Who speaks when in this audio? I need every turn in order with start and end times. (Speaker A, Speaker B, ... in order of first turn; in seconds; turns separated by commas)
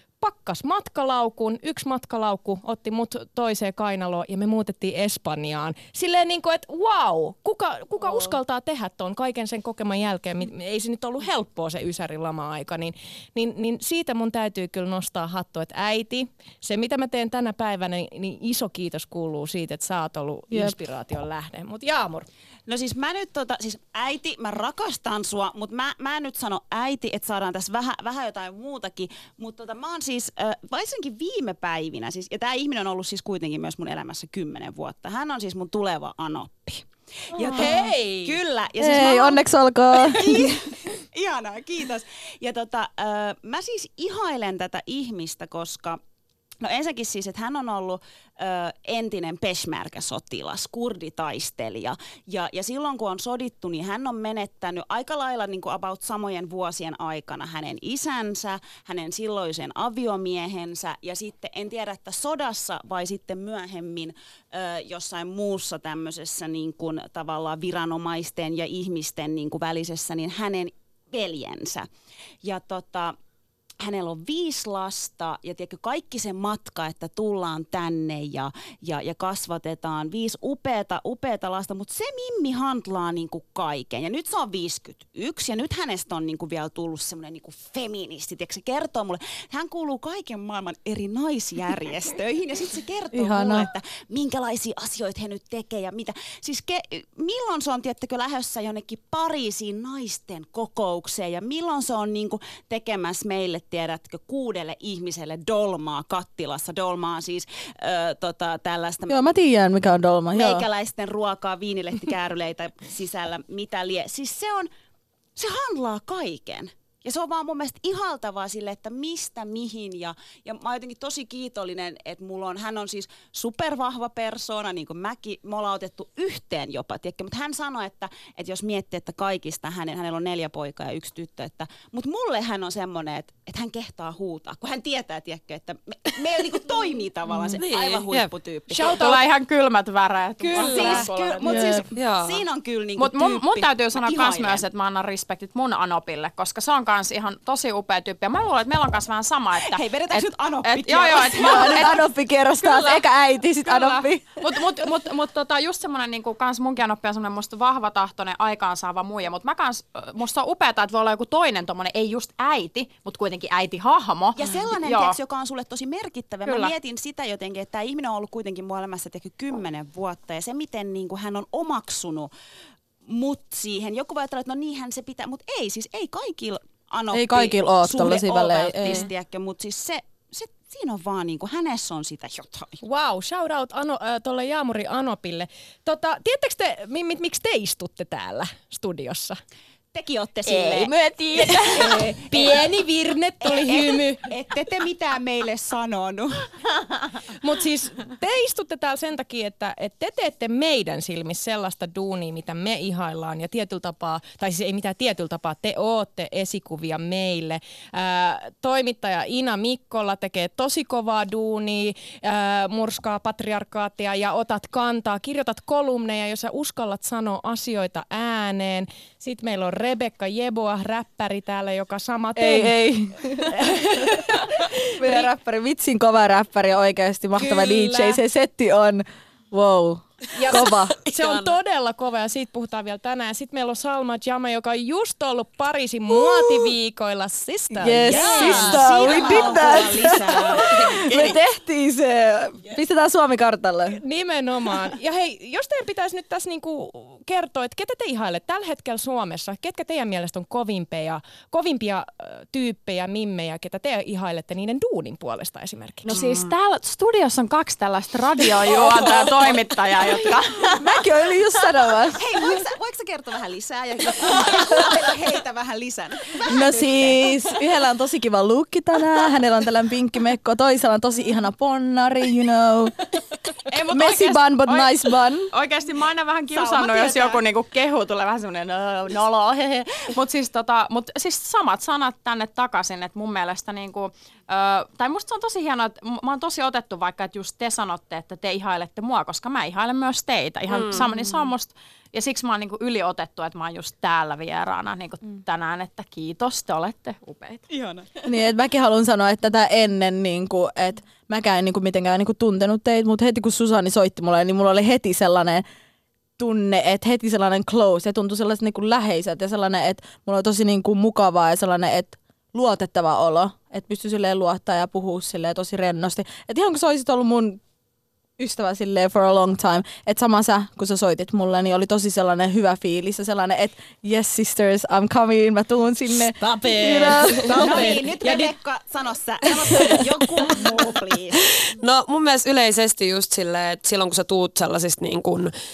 Speaker A: 0.2-22.3, Speaker B: 20.5-20.8, Speaker C: 22.7-39.4, Speaker A: 37.5-38.4, Speaker B: 38.8-40.5, Speaker C: 40.1-46.0, Speaker C: 46.6-71.9, Speaker C: 72.4-73.2, Speaker C: 73.8-109.3, Speaker B: 93.1-93.7, Speaker B: 109.1-110.7, Speaker C: 110.3-114.7, Speaker C: 115.4-139.1, Speaker D: 137.6-138.3, Speaker E: 138.7-141.7, Speaker C: 140.5-144.6, Speaker D: 140.6-141.0, Speaker A: 140.6-140.9, Speaker B: 141.4-141.8, Speaker D: 141.9-142.4, Speaker E: 143.0-152.1, Speaker C: 149.6-152.0, Speaker B: 151.2-154.5, Speaker E: 152.6-153.1, Speaker E: 153.6-165.2, Speaker C: 164.4-172.3, Speaker E: 166.4-166.7, Speaker C: 173.1-182.8, Speaker B: 177.1-179.1, Speaker A: 182.8-189.4, Speaker C: 189.9-190.9, Speaker A: 190.5-194.3, Speaker C: 191.7-192.7, Speaker C: 193.4-196.5, Speaker A: 197.4-222.9, Speaker B: 222.4-230.9, Speaker A: 223.5-225.3, Speaker A: 227.4-228.2, Speaker A: 230.3-240.6, Speaker D: 230.5-231.5, Speaker B: 236.1-236.7, Speaker B: 237.8-244.0, Speaker C: 238.1-240.8, Speaker D: 240.7-241.4, Speaker A: 244.0-256.2, Speaker E: 256.1-260.9, Speaker B: 260.8-262.4, Speaker C: 262.2-267.2, Speaker B: 266.5-272.9, Speaker E: 273.6-297.6, Speaker B: 273.9-275.5, Speaker C: 276.5-277.4, Speaker D: 290.7-291.0, Speaker C: 297.7-298.0, Speaker B: 298.2-305.6, Speaker B: 306.4-317.6, Speaker B: 318.4-328.0, Speaker C: 327.4-331.6, Speaker A: 327.6-328.4, Speaker D: 331.6-335.5